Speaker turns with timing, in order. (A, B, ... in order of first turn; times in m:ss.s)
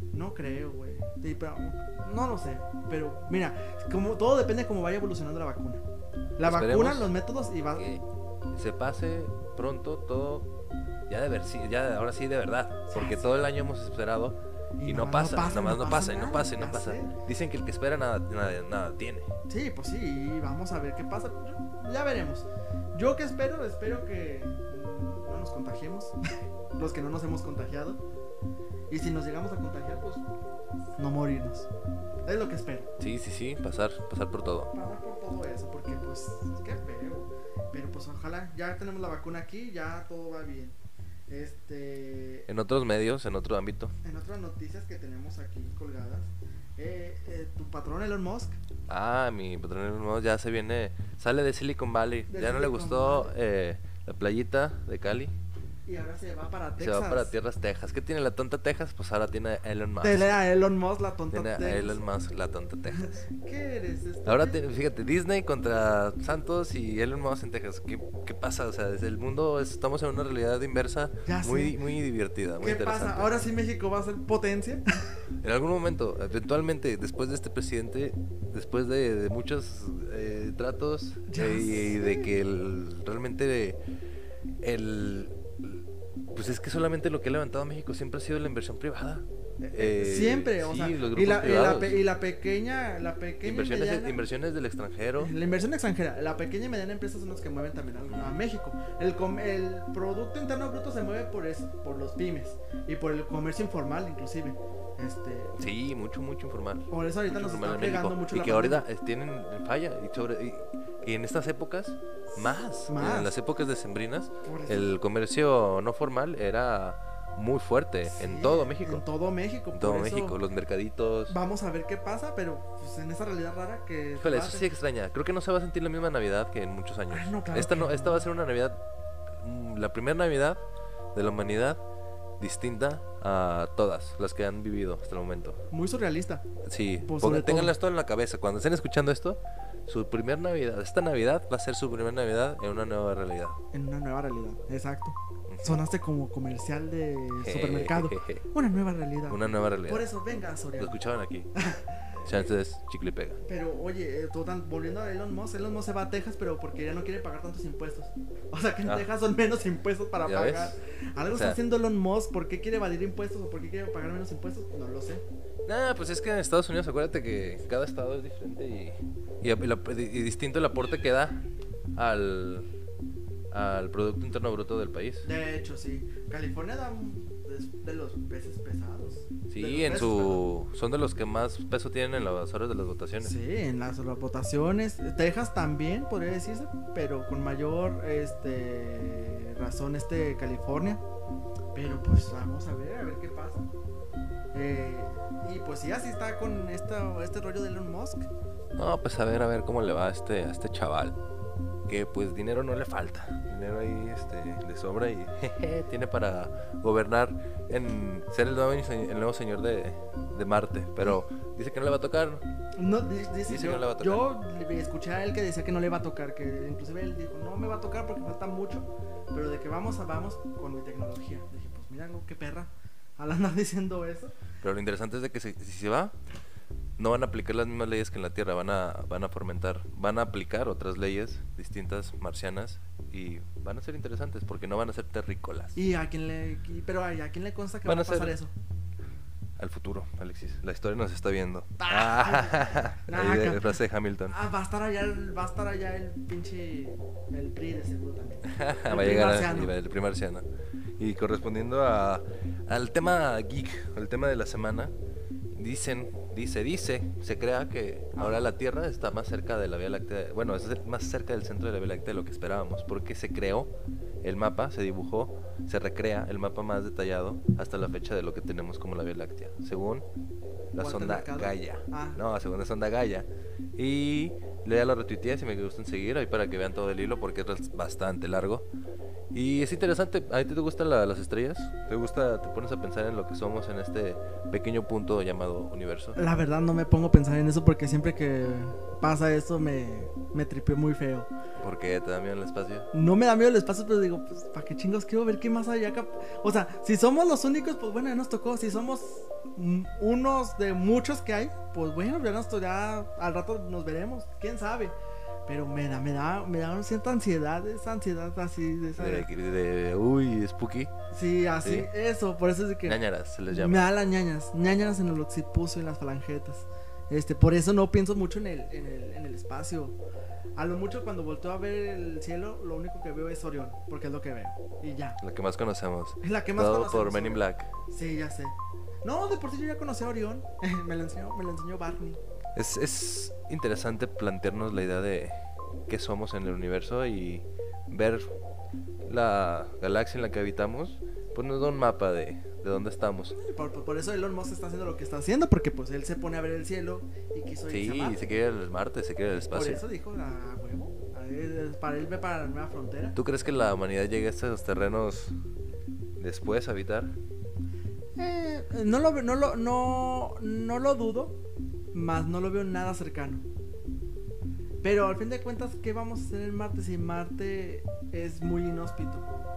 0:00.1-0:05.8 A
0:06.4-0:07.9 A
0:06.4-0:07.1 B
0:07.8-0:10.5 B
0:11.1-0:19.3 B
0:12.9-0:13.4 A
0:14.8-0:17.1 A
0:19.5-0:26.2 A
0:26.7-0:28.0 A
0:28.9-0:30.2 A
0:31.0-0:31.7 A
0:32.2-0:32.9 A
0:33.0-0:34.7 B
0:34.7-0:40.8 A
0:41.3-0:42.4 A
0:42.5-0:43.9 B
0:44.0-0:48.6 A
0:48.9-0:55.3 B
0:52.3-0:53.3 A
0:55.8-0:57.3 A
0:56.8-1:00.4 B
1:00.0-1:02.0 A
1:01.3-1:03.2 B
1:03.0-1:04.6 A
1:04.2-1:13.4 B
1:11.2-1:11.8 A
1:12.6-1:14.8 A
1:15.4-1:23.8 B
1:21.3-1:22.3 A
1:24.6-1:32.0 B
1:29.6-1:34.2 A
1:33.4-1:35.3 B
1:35.2-1:45.6 A
1:38.0-1:38.4 B
1:45.6-1:59.0 B
1:46.9-1:48.8 A
1:52.3-1:53.3 A
1:54.4-1:54.9 A
1:58.0-2:00.4 A
1:59.7-2:01.4 B
2:01.3-2:04.6 A
2:04.2-2:08.8 B
2:07.1-2:08.2 A
2:09.4-2:10.6 B
2:11.1-2:11.8 B
2:12.4-2:15.6 B
2:15.7-2:16.4 A
2:16.6-2:23.6 B
2:17.0-2:17.7 A
2:23.7-2:31.0 A
2:25.5-2:25.8 B
2:27.4-2:28.4 B
2:29.3-2:30.0 B
2:30.8-2:31.5 B
2:31.5-2:32.4 A
2:32.2-2:33.4 B
2:33.4-2:45.2 A
2:40.2-2:40.8 B
2:41.3-2:41.6 B
2:45.6-2:51.4 B
2:52.0-2:52.6 B
2:53.5-2:55.3 B
2:55.2-3:00.4 A
2:59.5-3:03.3 B
3:03.2-3:11.0 A
3:11.7-3:13.7 A
3:14.5-3:18.3 A
3:18.8-3:21.2 B
3:21.9-3:32.4 B
3:32.8-3:44.4 A
3:33.4-3:34.2 B
3:44.6-3:46.2 B
3:47.0-3:55.8 B
3:55.8-3:58.5 A
3:57.8-3:58.4 B
3:59.6-4:04.4 B
4:01.8-4:03.7 A
4:04.3-4:09.7 A
4:08.4-4:10.4 B
4:11.0-4:14.9 B
4:15.5-4:23.7 B
4:18.1-4:18.5 A
4:24.2-4:30.0 B
4:30.7-4:38.6 B
4:30.8-4:32.2 A
4:39.3-4:46.2 B
4:46.2-4:51.3 A
4:51.6-4:52.9 B
4:52.9-5:04.9 A
5:05.5-5:09.3 A
5:09.0-5:10.9 B
5:11.1-5:13.0 A
5:11.6-5:11.9 B
5:12.8-5:13.9 B
5:13.5-5:20.0 A
5:20.6-5:25.2 A
5:25.2-5:27.7 B
5:26.2-5:32.2 A
5:32.6-5:38.3 B
5:39.0-5:43.4 B
5:43.3-5:48.4 A
5:47.7-5:49.8 B
5:49.3-5:53.1 A
5:53.1-5:55.3 B
5:56.2-5:57.1 B
5:58.2-6:01.4 A
6:01.9-6:03.4 A
6:04.8-6:09.2 A